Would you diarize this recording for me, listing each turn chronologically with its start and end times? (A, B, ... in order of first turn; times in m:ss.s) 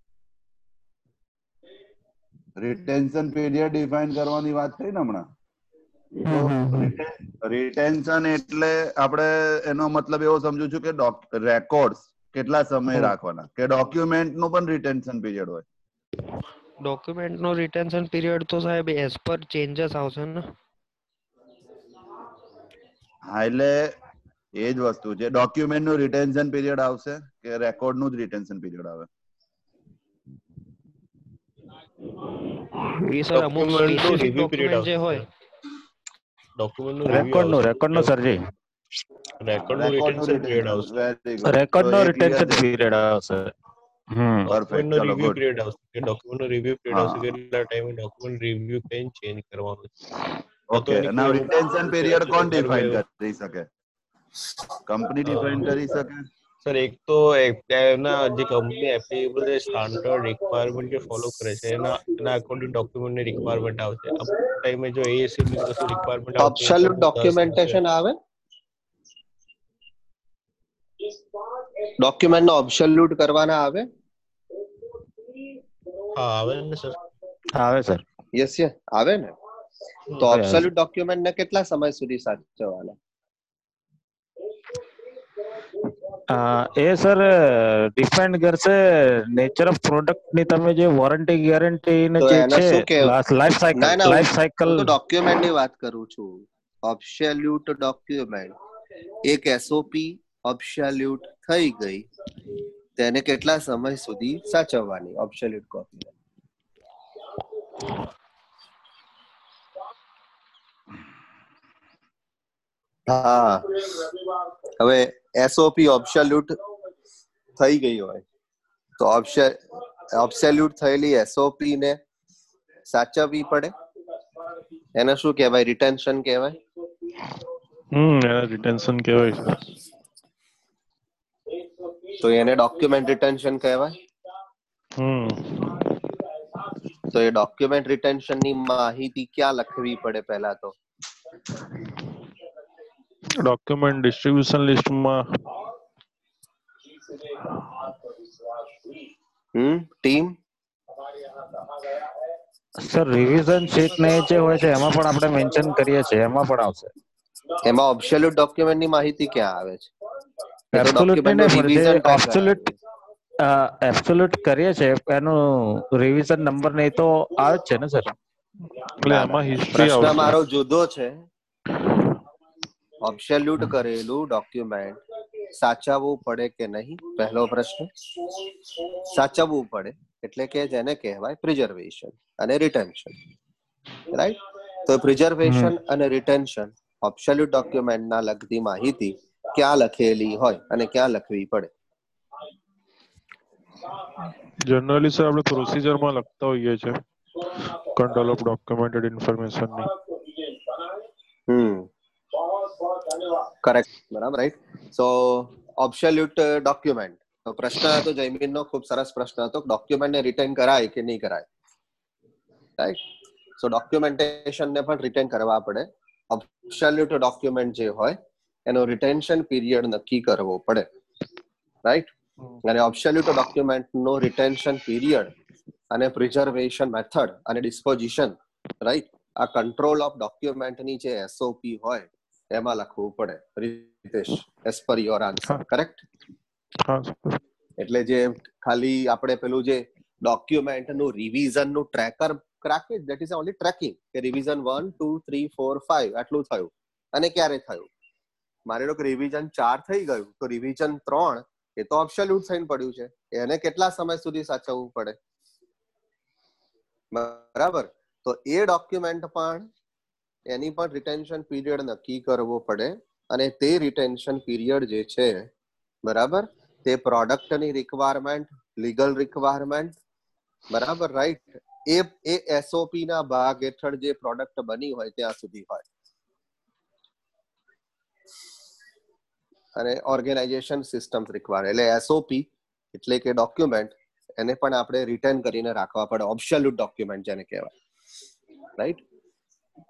0:02.6-0:05.3 A
0:06.2-0:06.8 B
0:06.3-0:15.6 A
0:16.8-0:20.4 C
0:23.3-0:23.9 A
0:24.6-0:29.1 A
0:32.8-0:35.2 C
0:33.3-0:35.3 D
0:36.6-0:38.2 D
0:37.1-0:38.4 B
0:39.4-0:41.0 D
0:39.6-0:42.7 A
0:41.4-0:43.5 B
0:44.1-0:44.5 B
0:44.5-0:49.9 D
0:44.5-0:45.4 A
0:46.9-0:47.3 A
0:50.7-0:53.7 A
0:50.7-0:53.0 D
0:54.8-0:56.2 A
0:55.3-0:55.8 D
0:56.6-1:07.8 D
1:06.4-1:08.2 E
1:12.0-1:13.9 E
1:16.1-1:17.0 D
1:17.5-1:18.0 B
1:18.4-1:19.4 E
1:20.2-1:23.0 E
1:20.2-1:20.7 B
1:26.3-1:34.9 B
1:32.2-1:33.2 E
1:33.8-1:38.6 E
1:39.2-1:42.1 E
1:43.0-1:46.1 E
1:53.1-1:53.8 E
1:54.8-1:56.5 E
1:57.6-1:58.2 E
1:59.0-1:59.6 E
2:00.1-2:02.0 E
2:02.9-2:03.8 E
2:05.0-2:06.6 E
2:07.9-2:09.6 F
2:12.1-2:14.0 E
2:15.0-2:15.8 F
2:17.1-2:20.8 E
2:23.4-2:25.6 F
2:29.6-2:30.4 E
2:32.8-2:36.9 B
2:37.6-2:39.9 E
2:40.7-2:42.6 B
2:40.8-2:42.8 E
2:43.4-2:48.2 B
2:48.7-2:50.4 F
2:49.1-2:51.2 E
2:53.0-2:55.0 E
2:55.6-2:57.9 E
2:59.1-3:03.1 E
3:04.1-3:11.7 E
3:05.4-3:05.7 B
3:14.3-3:20.0 F
3:21.5-3:21.9 E
3:23.6-3:31.5 E
3:33.6-3:38.2 E
3:38.7-3:40.9 E
3:41.8-3:42.1 E
3:42.6-3:45.3 E
3:45.9-3:56.0 E
3:56.9-3:57.4 F
3:57.8-4:07.9 E
4:08.7-4:15.2 E
4:17.1-4:19.7 E
4:20.5-4:25.5 E
4:26.0-4:30.0 E
4:30.7-4:35.9 E
4:39.8-4:47.7 E